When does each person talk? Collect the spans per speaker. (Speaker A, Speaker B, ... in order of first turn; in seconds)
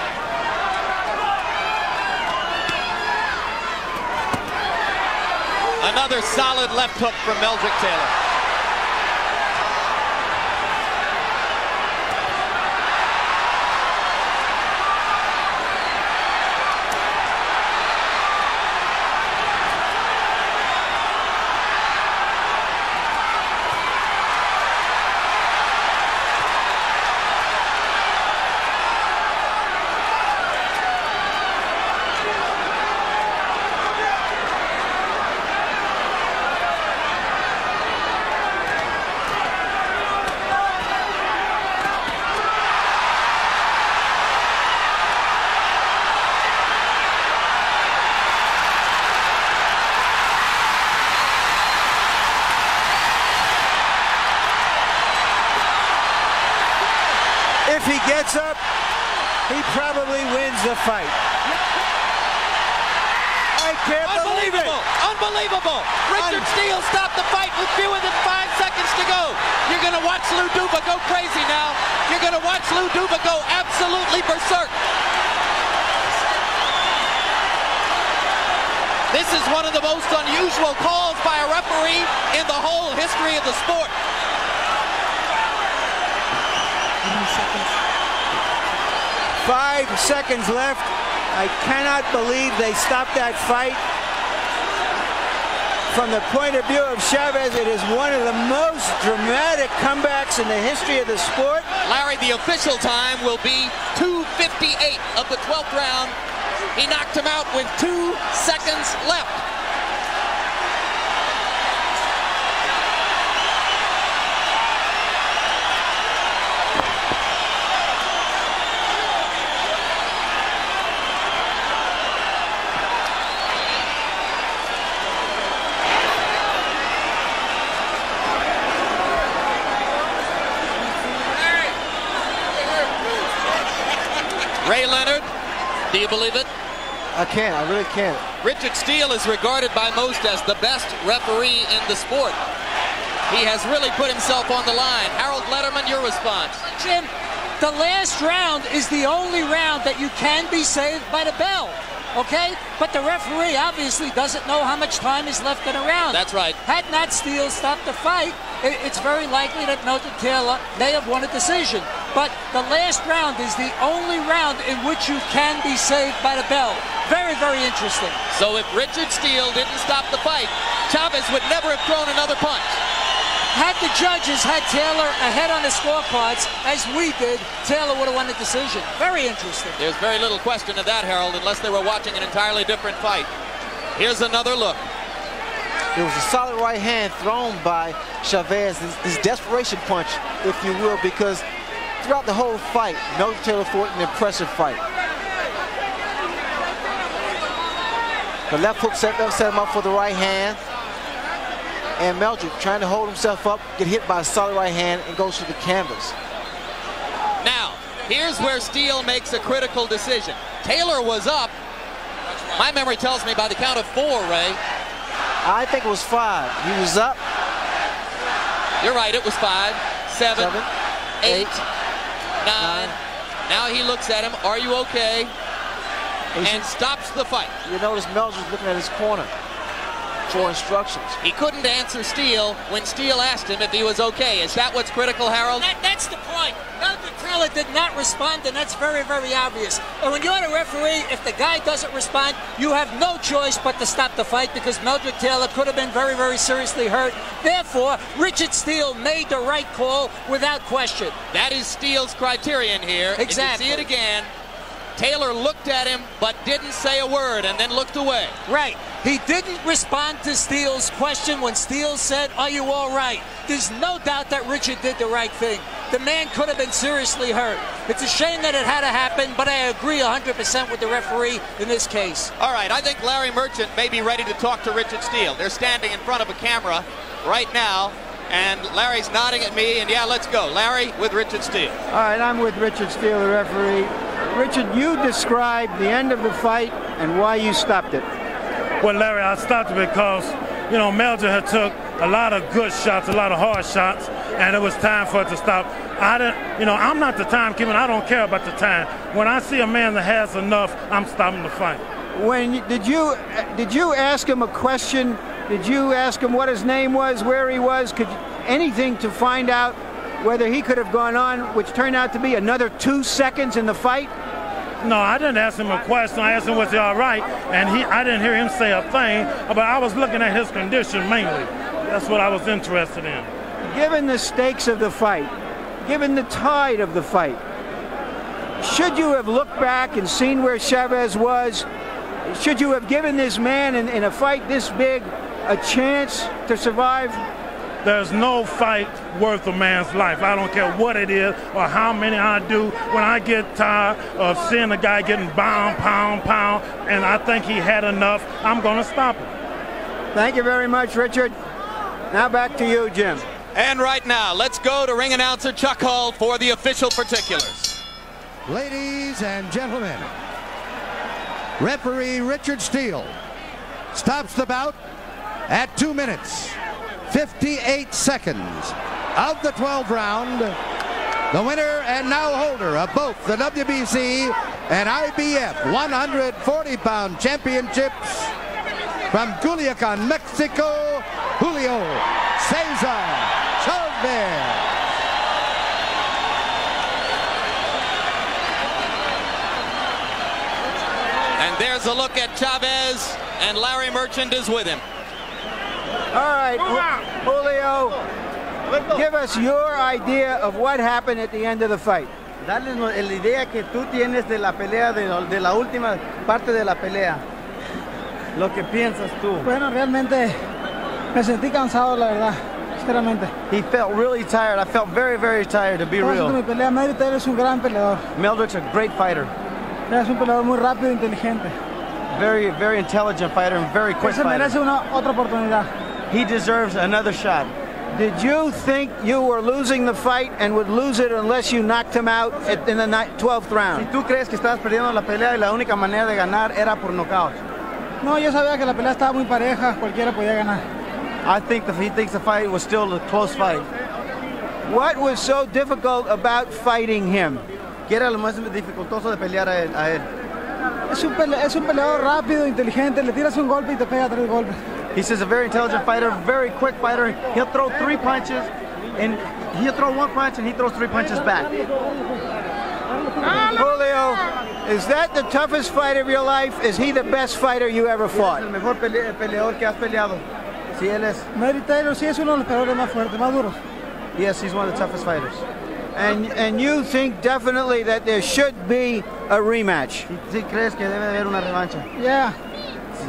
Speaker A: 5.8-8.1, 64.0-74.8, 79.1-83.9, 101.8-106.2, 106.7-109.4, 134.6-135.3, 135.9-136.5, 138.4-142.4, 143.3-146.7, 156.1-156.6, 168.3-172.8, 179.8-183.3, 183.9-184.8, 207.4-211.5, 212.5-214.6, 218.8-220.6, 221.2-221.6, 222.4-222.9, 223.5-225.3, 226.4-227.5, 231.2-235.7, 251.3-254.3, 254.9-258.4, 272.4-281.8, 353.5-357.8, 391.4-394.8
Speaker B: 57.6-58.6, 59.5-61.1, 63.5-64.8, 66.2-66.4, 89.4-93.8, 95.9-101.7, 281.9-288.1, 302.1-314.1, 323.7-325.3, 325.8-327.4, 328.6-331.7, 332.2-337.2, 350.1-351.3, 352.1-353.2, 396.1-398.0, 398.9-402.1, 427.9-433.9, 444.7-447.4, 463.4-468.4, 475.9-480.1
Speaker C: 137.1-138.2, 185.9-191.4, 192.0-194.8, 198.5-200.6, 202.0-206.2, 215.4-217.2, 220.3-220.7, 221.2-221.5, 222.6-222.9, 226.3-226.7, 227.6-229.3, 230.3-231.2
Speaker D: 146.7-168.2, 173.5-179.8, 235.6-251.2, 253.2-253.9, 258.5-272.3
Speaker E: 288.8-301.8, 314.8-323.3, 337.8-349.3
Speaker F: 358.4-360.1, 361.6-363.1, 363.9-364.8, 365.5-366.6, 367.1-370.6, 371.3-378.3, 379.1-384.7
Speaker G: 402.4-407.2, 408.3-409.5, 413.5-416.4, 418.1-419.3, 422.1-424.6, 426.1-427.5, 433.7-437.4, 441.2-443.7, 447.9-450.1, 454.9-461.5, 468.1-470.2, 470.7-471.2, 474.1-475.4, 480.1-481.9
Speaker H: 409.4-410.4, 411.1-413.3, 416.0-418.0, 419.9-421.5, 424.0-425.7, 438.0-440.6, 450.9-454.6, 471.3-473.6, 481.9-482.3